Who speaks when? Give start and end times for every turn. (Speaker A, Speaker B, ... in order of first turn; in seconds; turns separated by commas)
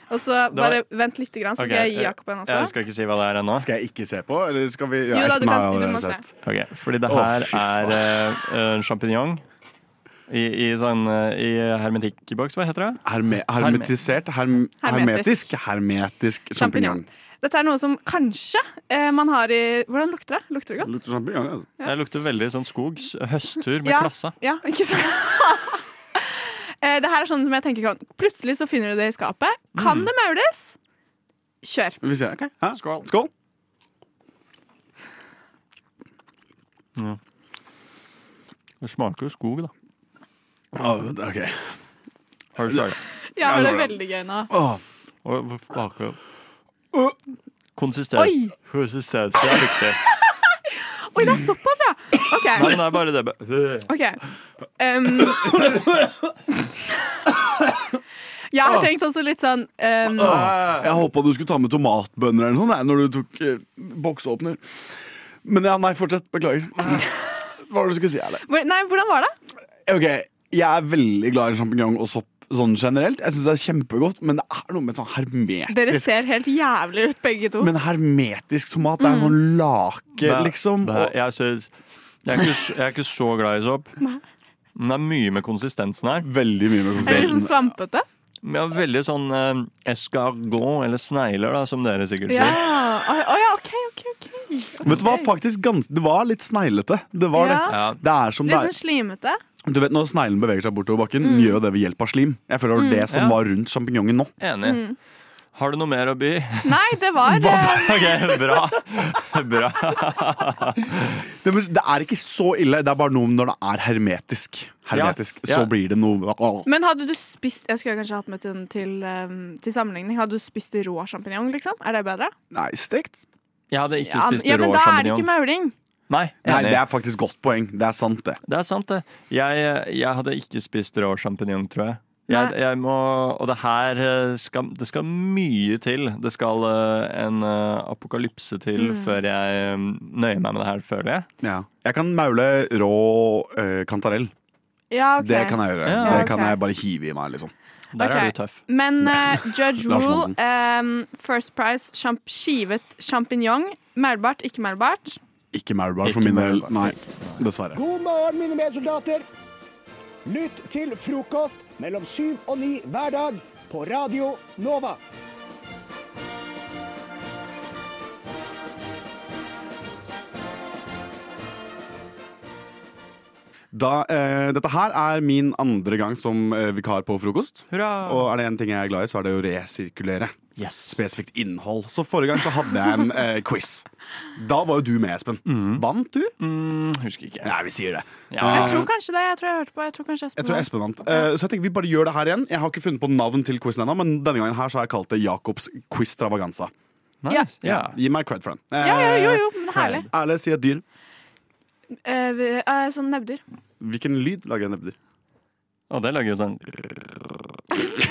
Speaker A: 0.1-2.7, Speaker B: 0.5-0.8, Speaker B: 1.6-3.7, Speaker C: 3.5-6.3, Speaker A: 5.1-6.2, Speaker B: 6.4-9.4, Speaker C: 7.1-8.1, Speaker B: 10.3-13.0, Speaker C: 13.0-17.1, Speaker B: 13.6-13.9, Speaker A: 14.8-15.5, Speaker A: 16.6-20.9, Speaker C: 20.8-21.7, Speaker B: 21.8-24.4, Speaker A: 23.8-30.8, Speaker B: 29.8-30.1, Speaker A: 31.6-32.0, Speaker C: 32.0-33.3, Speaker B: 32.7-33.0, Speaker B: 38.8-39.7, Speaker C: 40.7-41.6, Speaker B: 42.5-43.0, Speaker A: 43.3-44.5, Speaker C: 43.4-43.9, Speaker C: 44.5-44.8, Speaker B: 45.2-46.2, Speaker B: 47.8-50.0, Speaker A: 48.1-48.5, Speaker A: 51.1-52.9, Speaker B: 52.5-53.9, Speaker A: 53.9-54.2, Speaker A: 54.8-55.7, Speaker A: 58.5-60.5, Speaker C: 60.2-64.8, Speaker B: 60.2-60.9, Speaker C: 65.4-67.0, Speaker C: 67.6-68.4, Speaker A: 68.4-69.3, Speaker C: 69.8-76.2, Speaker A: 75.7-77.7, Speaker C: 77.6-81.1, Speaker A: 79.0-79.4, Speaker B: 80.2-81.7, Speaker B: 82.2-83.9, Speaker B: 84.8-86.3, Speaker C: 86.2-87.7, Speaker B: 87.0-87.4, Speaker A: 87.0-88.0, Speaker B: 88.4-92.8, Speaker A: 92.3-95.3, Speaker C: 94.8-98.7, Speaker A: 97.3-97.8, Speaker B: 97.7-98.0, Speaker A: 98.4-99.4, Speaker C: 99.6-104.3, Speaker A: 101.2-101.6, Speaker A: 102.7-103.1, Speaker B: 103.1-103.4, Speaker B: 104.4-104.8, Speaker A: 104.6-105.0, Speaker B: 105.5-111.1, Speaker A: 106.6-108.3, Speaker C: 111.4-116.7, Speaker B: 114.9-115.7, Speaker A: 116.6-122.3, Speaker C: 122.5-123.2, Speaker B: 123.7-125.3, Speaker A: 124.0-125.7, Speaker B: 126.1-126.8, Speaker C: 126.4-128.4, Speaker B: 128.5-141.3, Speaker A: 132.3-132.6, Speaker A: 138.7-139.2, Speaker C: 141.4-144.3, Speaker A: 144.9-146.6, Speaker C: 145.2-147.5, Speaker B: 145.8-146.3, Speaker B: 147.9-148.6, Speaker A: 148.0-155.2, Speaker C: 149.0-150.3, Speaker C: 155.5-157.8, Speaker B: 156.0-157.4, Speaker D: 157.7-159.2, Speaker D: 160.2-165.0, Speaker C: 173.7-183.8, Speaker B: 177.7-178.3, Speaker B: 180.6-181.0, Speaker C: 184.3-186.3, Speaker B: 185.5-185.8, Speaker B: 186.4-187.6, Speaker C: 187.4-188.9, Speaker B: 188.3-188.8, Speaker A: 188.5-191.3, Speaker C: 190.4-196.7, Speaker B: 197.2-198.0, Speaker C: 197.6-199.4, Speaker A: 198.8-200.1, Speaker B: 199.7-200.1, Speaker C: 200.1-200.8, Speaker A: 202.0-203.4, Speaker C: 203.8-204.9, Speaker B: 205.9-207.2